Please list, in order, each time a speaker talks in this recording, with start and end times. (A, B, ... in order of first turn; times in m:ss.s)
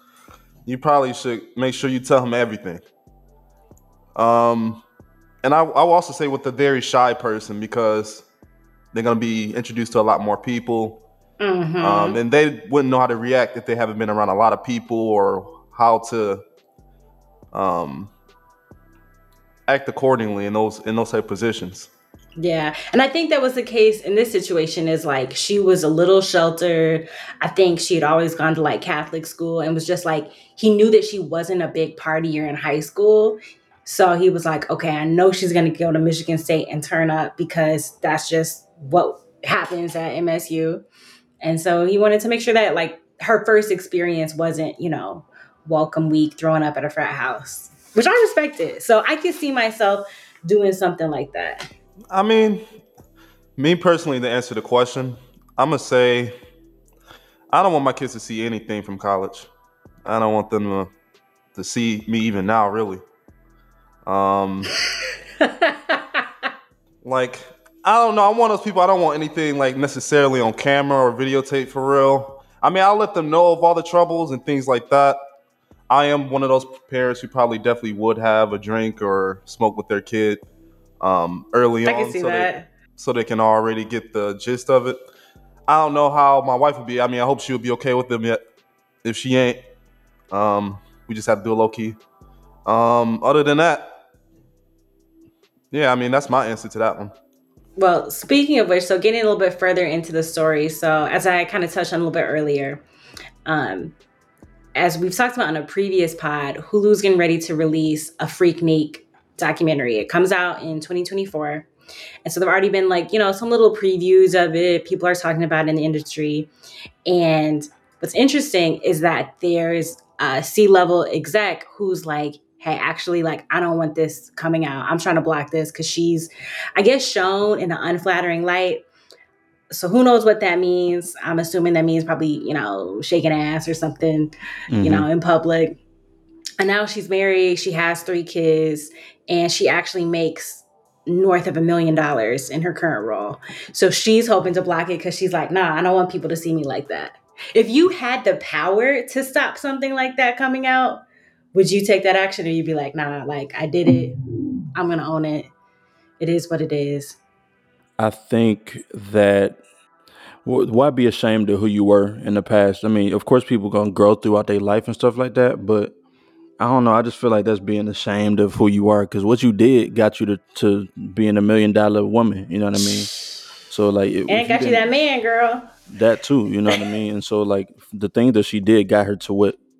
0:00.6-0:02.8 A
0:04.2-0:04.8 A
0:05.4-0:08.2 A
0:08.9-0:11.0 A
0:11.4-0:12.2 B
0:11.8-0:16.4 A
0:17.5-0:18.1 A
0:19.7-0:21.9 A
0:22.4-0:40.8 B
0:41.4-0:51.7 B
0:52.1-0:52.6 A
0:53.6-0:56.3 A
0:57.5-0:59.5 A
1:00.0-1:00.9 A
1:01.5-1:03.0 A
1:04.0-1:04.7 A
1:05.4-1:06.2 B
1:07.0-1:15.2 A
1:15.9-1:20.4 A
1:21.0-1:25.0 A
1:21.8-1:22.6 B
1:25.7-1:28.4 A
1:29.0-1:29.6 A
1:30.3-1:32.0 A
1:32.6-1:33.9 A
1:35.7-1:37.1 A
1:37.8-1:42.8 B
1:43.4-1:43.9 B
1:44.8-1:51.7 B
1:52.2-1:56.5 B
1:57.1-2:08.8 B
2:09.7-2:15.8 B
2:14.7-2:15.1 C
2:16.6-2:31.0 B
2:31.5-2:34.2 B
2:34.7-2:35.5 B
2:36.2-2:37.2 B
2:38.0-2:39.6 C
2:40.4-2:45.9 C
2:46.6-2:53.1 C
2:53.7-2:54.8 C
2:54.3-2:55.7 B
2:55.9-2:59.6 C